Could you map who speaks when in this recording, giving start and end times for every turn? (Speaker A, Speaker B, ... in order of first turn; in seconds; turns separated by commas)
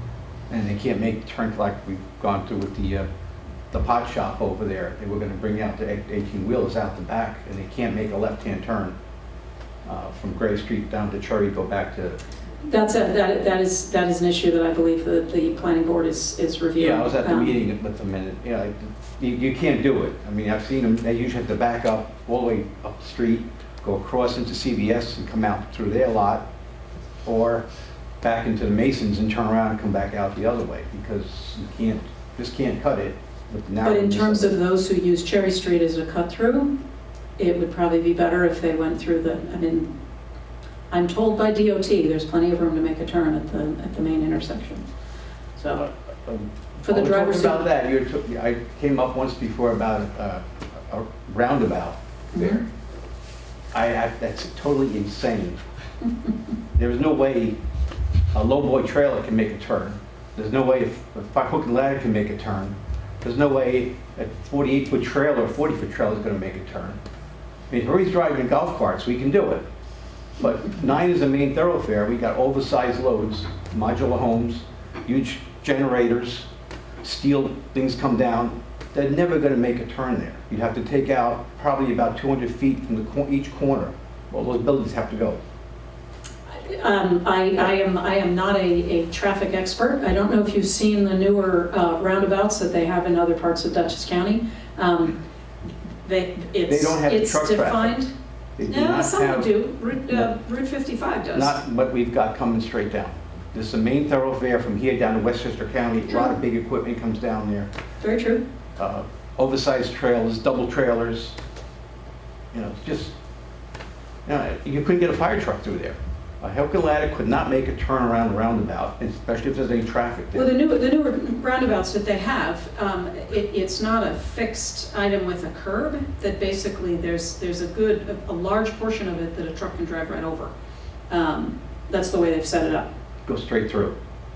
Speaker A: 0.5-3.1, Speaker A: 3.7-8.9, Speaker A: 9.8-12.2, Speaker B: 12.7-17.6, Speaker A: 16.8-26.5, Speaker A: 27.2-27.7, Speaker A: 28.2-34.5, Speaker B: 33.8-36.7, Speaker B: 37.4-39.9, Speaker B: 40.9-44.9, Speaker B: 45.6-45.9, Speaker A: 45.8-52.6, Speaker B: 46.8-47.7, Speaker B: 52.3-52.6, Speaker A: 53.7-55.6, Speaker A: 56.7-57.6, Speaker A: 58.3-67.0, Speaker A: 67.7-69.6, Speaker A: 70.4-76.5, Speaker A: 77.0-85.4, Speaker B: 86.5-95.2, Speaker B: 96.0-98.1, Speaker A: 96.7-98.0, Speaker A: 98.6-99.5, Speaker B: 98.7-101.5, Speaker A: 101.3-107.7, Speaker B: 108.0-108.4, Speaker A: 108.8-111.4, Speaker A: 112.5-113.1, Speaker A: 114.2-120.5, Speaker B: 120.3-130.5, Speaker B: 131.1-132.9, Speaker A: 133.2-133.9